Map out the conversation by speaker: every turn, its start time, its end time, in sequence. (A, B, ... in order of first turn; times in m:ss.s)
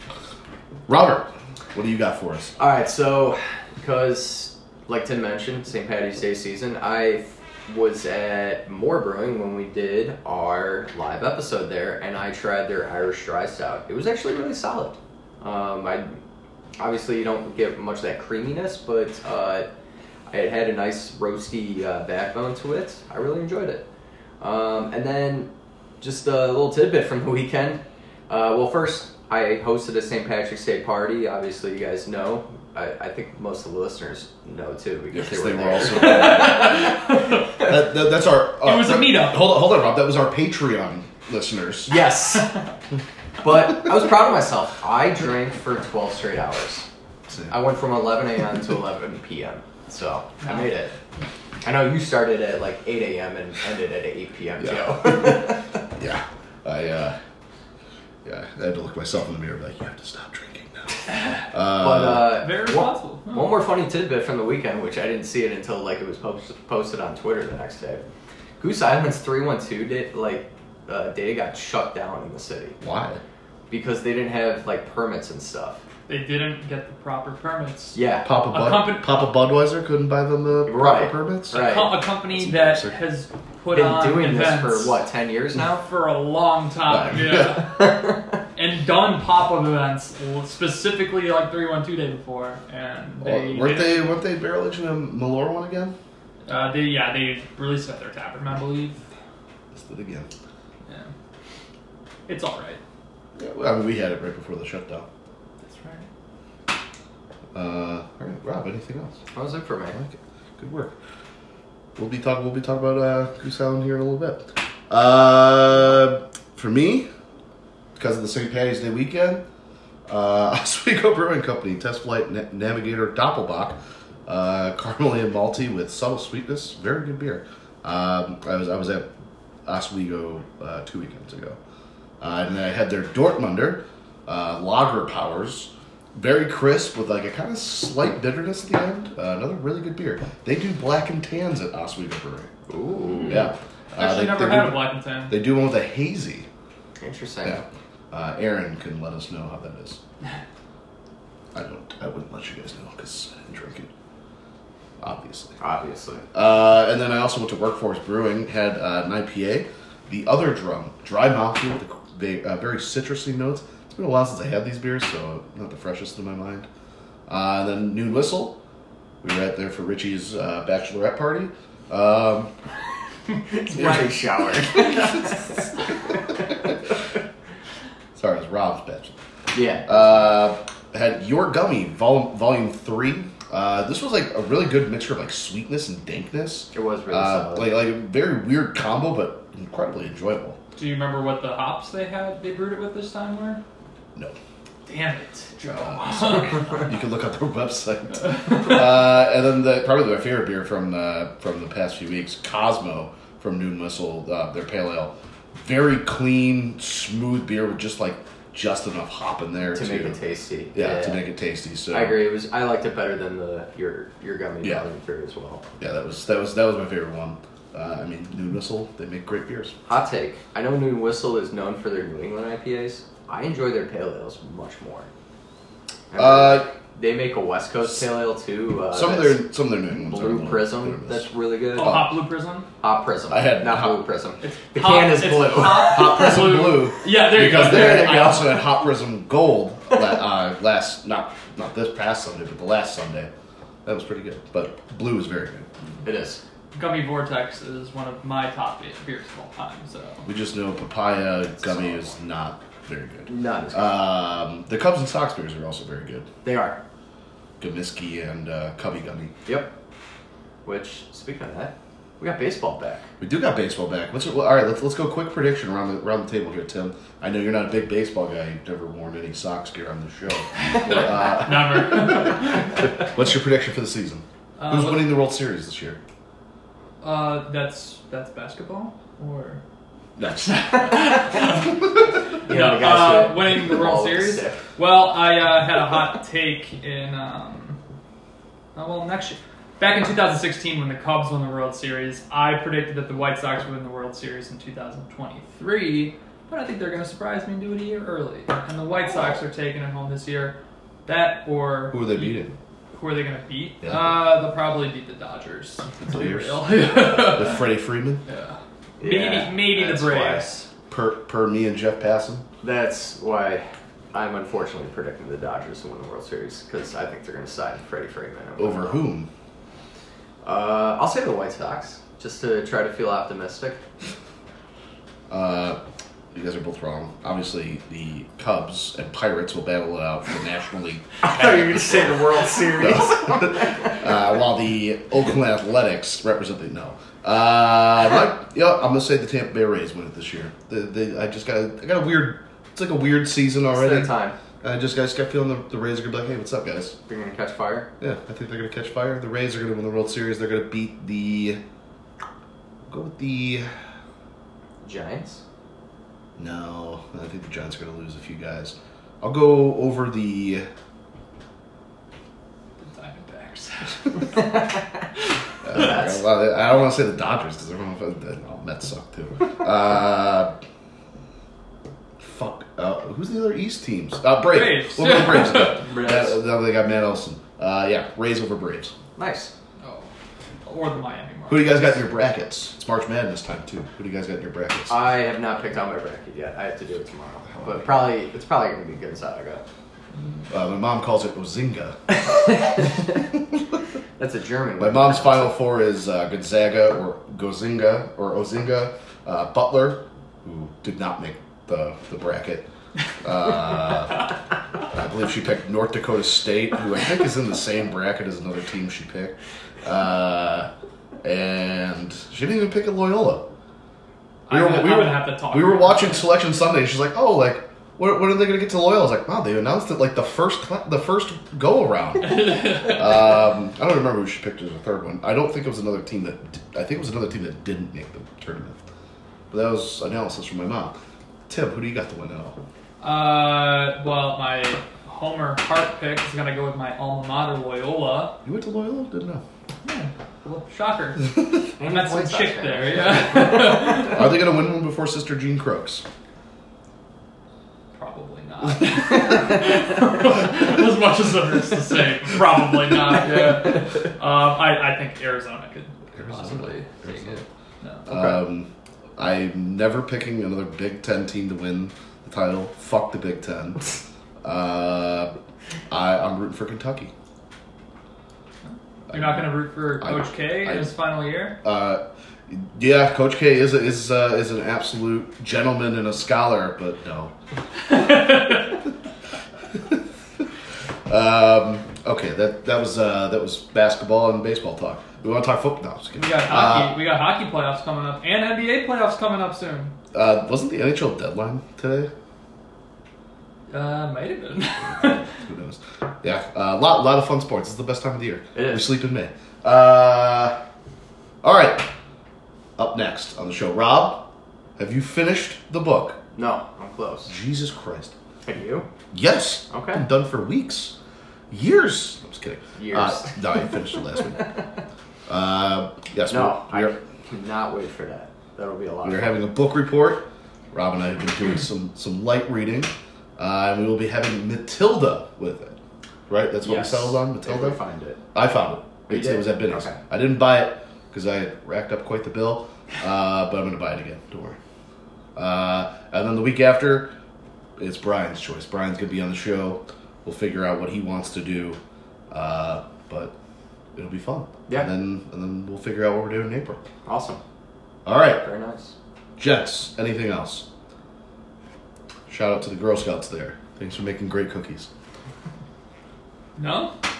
0:00.9-0:02.5 A
0:02.6-0:16.2 B
0:16.8-0:19.7 B
0:20.3-0:23.9 B
0:24.4-0:37.6 B
0:35.1-0:37.0 A
0:36.0-0:37.7 C
0:37.6-0:41.9 A
0:38.6-0:39.5 C
0:41.9-0:42.6 B
0:43.4-0:46.9 B
0:47.3-0:47.6 A
0:47.5-0:50.9 B
0:50.4-0:50.7 C
0:51.6-0:55.8 B
0:54.6-0:55.2 A
0:56.0-0:57.2 A
0:58.2-1:02.4 A
1:01.1-1:01.4 C
1:01.7-1:08.0 B
1:02.3-1:03.6 C
1:08.6-1:12.8 B
1:12.8-1:13.2 A
1:13.7-1:15.8 B
1:16.1-1:18.0 C
1:18.0-1:18.3 B
1:18.2-1:21.7 A
1:18.5-1:19.4 C
1:20.7-1:22.0 B
1:21.5-1:25.0 C
1:22.2-1:23.0 A
1:23.7-1:25.8 B
1:25.6-1:28.0 C
1:26.9-1:27.6 A
1:27.5-1:28.4 B
1:28.6-1:34.2 C
1:33.2-1:36.0 A
1:36.5-1:39.1 C
1:39.7-1:40.3 A
1:40.9-1:41.1 C
1:42.3-1:42.8 C
1:43.4-1:45.1 A
1:45.6-1:46.1 C
1:47.5-1:49.2 A
1:49.3-1:50.0 B
1:49.9-1:51.0 A
1:52.0-1:57.1 A
1:58.0-1:59.4 A
2:00.1-2:09.1 A
2:09.7-2:11.6 A
2:12.2-2:22.5 A
2:22.7-2:23.5 B
2:23.2-2:26.5 A
2:24.0-2:25.4 C
2:27.0-2:27.6 B
2:27.4-2:30.0 A
2:31.5-2:33.9 A
2:35.0-2:35.6 A
2:35.6-2:36.3 B
2:36.3-2:46.7 A
2:47.3-2:48.6 A
2:49.2-2:52.6 A
2:53.5-2:56.3 B
2:53.7-2:54.1 A
2:58.2-2:59.2 A
2:59.5-3:00.3 B
2:59.9-3:10.6 A
3:06.7-3:07.7 B
3:10.8-3:13.6 C
3:14.9-3:16.9 C
3:15.8-3:30.2 A
3:18.3-3:18.7 C
3:29.7-3:31.2 B
3:30.7-3:32.2 A
3:31.9-3:35.6 B
3:35.8-3:39.8 A
3:39.9-3:45.1 B
3:46.1-3:52.1 B
3:46.2-3:46.7 A
3:48.9-3:52.2 A
3:51.7-3:52.7 C
3:52.8-3:56.1 B
3:53.3-3:54.0 A
3:54.4-3:58.6 C
3:55.6-4:03.3 A
3:57.3-3:58.5 B
4:03.8-4:05.7 A
4:06.0-4:06.4 B
4:06.7-4:10.3 C
4:10.2-4:16.3 A
4:11.6-4:12.1 B
4:13.3-4:14.0 B
4:16.4-4:16.8 B
4:17.6-4:19.3 A
4:19.5-4:19.7 B
4:20.6-4:23.1 B
4:23.2-4:36.0 A
4:30.6-4:33.1 C
4:34.6-4:35.1 C
4:37.0-4:39.6 C
4:40.2-4:40.9 A
4:40.4-4:47.8 C
4:42.5-4:44.7 B
4:48.8-5:07.7 C
5:01.9-5:02.5 A
5:03.8-5:04.2 A
5:06.0-5:08.2 A
5:08.3-5:10.5 C
5:09.0-5:10.7 B
5:10.9-5:12.5 A
5:12.6-5:19.0 B
5:18.6-5:19.3 A
5:20.4-5:23.8 B
5:25.3-5:25.8 A
5:26.3-5:47.0 A
5:31.2-5:34.1 B
5:43.7-5:44.4 B
5:47.1-5:47.9 B
5:48.0-5:51.6 A
5:52.9-5:53.8 A
5:54.8-5:55.4 B
5:56.4-6:00.7 A
6:02.8-6:04.8 C
6:04.4-6:04.7 B
6:05.6-6:10.6 A
6:05.8-6:06.0 B
6:12.2-6:19.0 A
6:14.5-6:15.8 C
6:15.7-6:16.4 B
6:19.2-6:19.5 B
6:19.8-6:20.1 C
6:20.6-6:22.0 C
6:21.5-6:25.0 A
6:24.9-6:29.6 B
6:27.5-6:28.0 A
6:30.2-6:30.4 C
6:30.5-6:32.2 A
6:34.2-6:35.6 B
6:34.8-6:42.7 A
6:43.2-6:44.3 A
6:44.9-6:50.7 A
6:51.2-6:53.5 A
6:54.5-6:56.3 C
6:54.5-7:08.8 A
7:02.2-7:03.1 C
7:09.5-7:12.6 A
7:13.0-7:18.4 C
7:18.4-7:19.4 A
7:19.8-7:24.3 C
7:21.8-7:23.8 B
7:24.0-7:26.0 A
7:28.0-7:38.1 C
7:36.1-7:37.4 A
7:38.1-7:45.4 A
7:38.1-7:38.4 B
7:45.9-7:47.1 A
7:48.7-7:51.6 C
7:49.1-7:50.9 A
7:51.6-7:57.3 A
7:57.9-7:58.8 C
7:59.8-8:00.5 A
8:01.1-8:07.0 A
8:06.2-8:10.0 C
8:10.1-8:12.1 A
8:13.7-8:15.4 C
8:14.8-8:20.6 A
8:18.5-8:18.9 B
8:21.4-8:21.9 A
8:22.8-8:26.2 A
8:26.4-8:27.3 B
8:27.3-8:28.2 A
8:28.4-8:28.9 B
8:29.1-8:31.0 A
8:29.7-8:30.0 B
8:31.5-8:34.6 A
8:32.8-8:34.7 B
8:35.3-8:36.9 A
8:36.3-8:39.4 B
8:39.0-8:47.8 A
8:46.6-8:48.2 B
8:48.3-8:54.6 A
8:49.1-8:50.0 B
8:55.4-8:57.1 A
8:57.8-9:01.8 A
9:02.3-9:03.3 A
9:04.0-9:06.8 A
9:07.0-9:07.4 B
9:08.0-9:08.4 A
9:08.4-9:09.0 B
9:09.4-9:10.7 A
9:12.3-9:14.9 A
9:16.6-9:17.0 C